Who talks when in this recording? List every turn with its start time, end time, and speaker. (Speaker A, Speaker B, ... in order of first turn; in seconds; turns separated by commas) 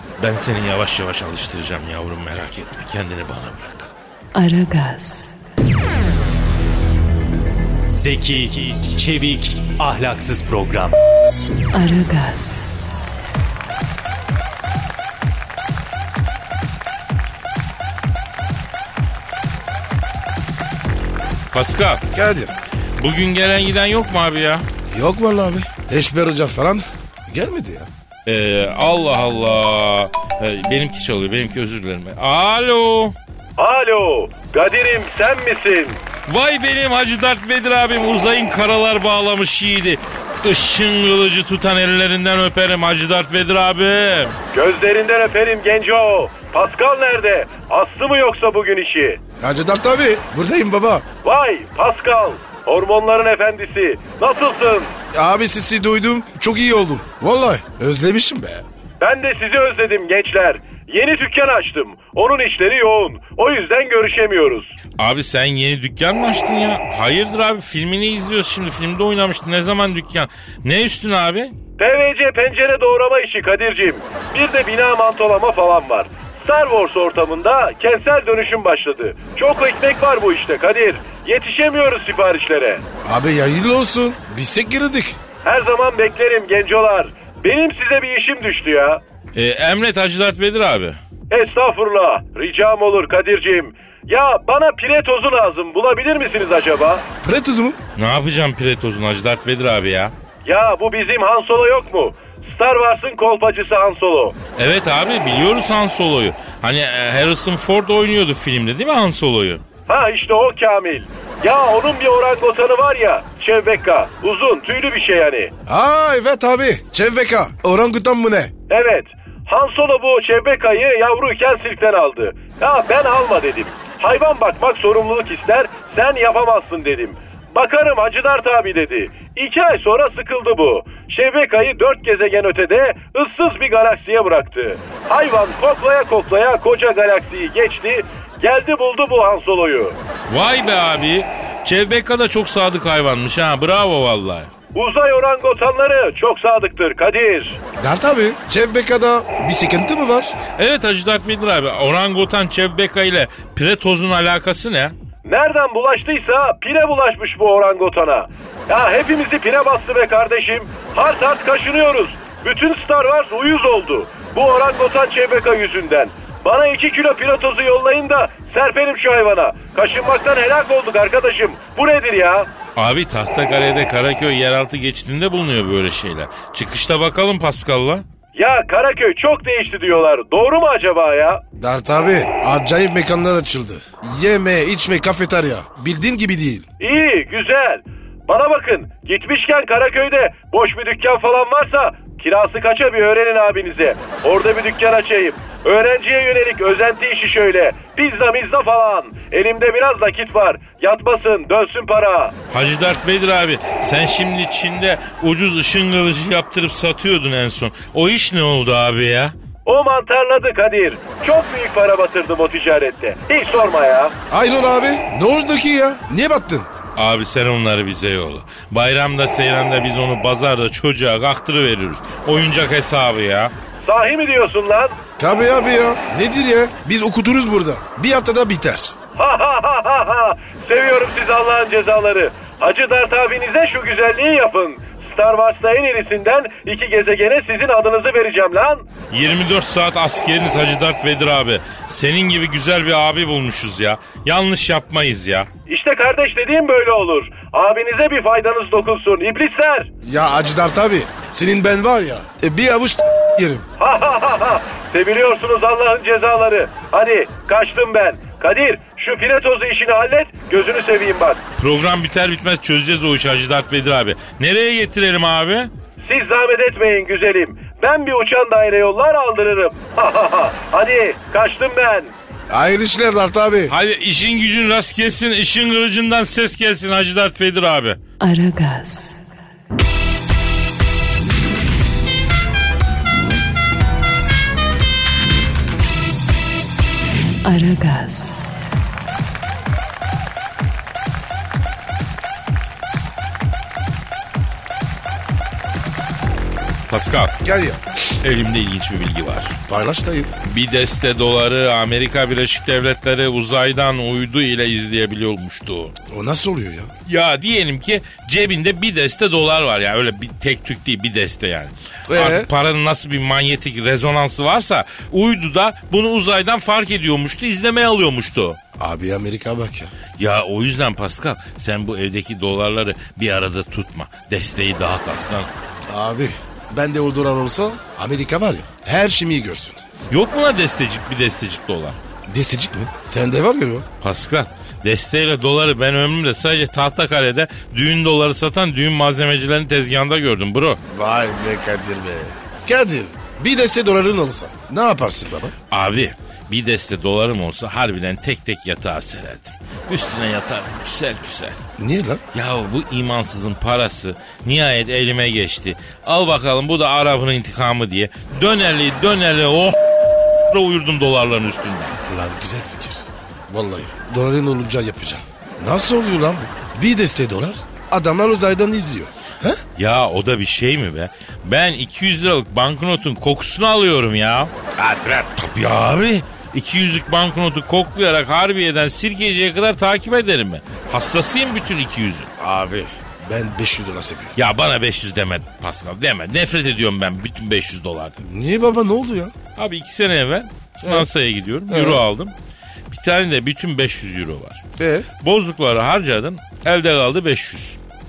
Speaker A: 0.2-3.9, Speaker B: 4.3-5.3, Speaker C: 7.9-11.0, Speaker B: 11.7-12.7, Speaker A: 21.5-22.0, Speaker D: 22.1-22.5, Speaker A: 23.0-24.6, Speaker D: 24.9-27.9, Speaker A: 28.3-33.2, Speaker E: 33.6-36.0, Speaker A: 36.3-44.4, Speaker E: 44.5-49.2, Speaker D: 49.4-51.0, Speaker E: 51.2-55.0, Speaker D: 55.1-58.6, Speaker E: 59.0-64.7, Speaker A: 65.0-71.5, Speaker E: 71.8-82.8, Speaker D: 83.0-85.2, Speaker E: 85.5-89.0, Speaker A: 89.3-91.0, Speaker E: 91.3-97.0, Speaker D: 97.2-97.8, Speaker A: 98.0-100.1, Speaker E: 100.5-104.4, Speaker A: 104.6-109.6, Speaker E: 109.9-115.5, Speaker D: 115.7-118.5, Speaker E: 118.7-140.0, Speaker A: 140.3-144.5, Speaker E: 144.8-147.6, Speaker D: 147.8-150.4, Speaker A: 150.6-154.9, Speaker E: 155.2-172.5, Speaker A: 172.8-178.1, Speaker E: 178.3-181.4, Speaker D: 181.6-186.7, Speaker E: 186.8-202.3, Speaker A: 202.5-209.3, Speaker E: 209.7-214.1, Speaker D: 214.3-216.7, Speaker A: 217.0-223.5, Speaker E: 223.8-225.0, Speaker D: 225.2-229.0, Speaker E: 229.2-238.9, Speaker A: 239.1-245.5, Speaker E: 245.7-249.9, Speaker D: 250.1-253.7, Speaker E: 253.8-261.4, Speaker A: 261.6-265.7, Speaker E: 266.0-272.1, Speaker D: 272.5-273.7, Speaker A: 273.7-278.0, Speaker B: 278.2-279.2, Speaker B: 287.4-288.5, Speaker A: 296.9-297.4, Speaker D: 297.4-297.8, Speaker A: 298.2-299.6, Speaker D: 299.7-300.3, Speaker A: 300.4-305.9, Speaker D: 306.1-306.9, Speaker A: 307.1-318.6, Speaker D: 312.1-312.5, Speaker D: 318.8-319.9, Speaker A: 320.2-325.5, Speaker D: 325.9-329.8, Speaker A: 330.1-332.0, Speaker D: 332.3-333.9, Speaker A: 334.0-340.8, Speaker D: 340.9-345.5, Speaker A: 345.7-351.6, Speaker D: 351.8-352.2, Speaker A: 352.3-359.8, Speaker A: 360.5-362.0, Speaker D: 362.1-369.6, Speaker A: 369.8-374.5, Speaker D: 374.8-375.3, Speaker A: 375.4-382.3, Speaker D: 382.4-384.4, Speaker A: 384.4-388.2, Speaker D: 388.2-389.3, Speaker A: 389.6-392.3, Speaker D: 390.8-391.1, Speaker D: 391.7-392.0, Speaker A: 392.9-394.6, Speaker D: 394.8-395.1, Speaker A: 395.2-397.8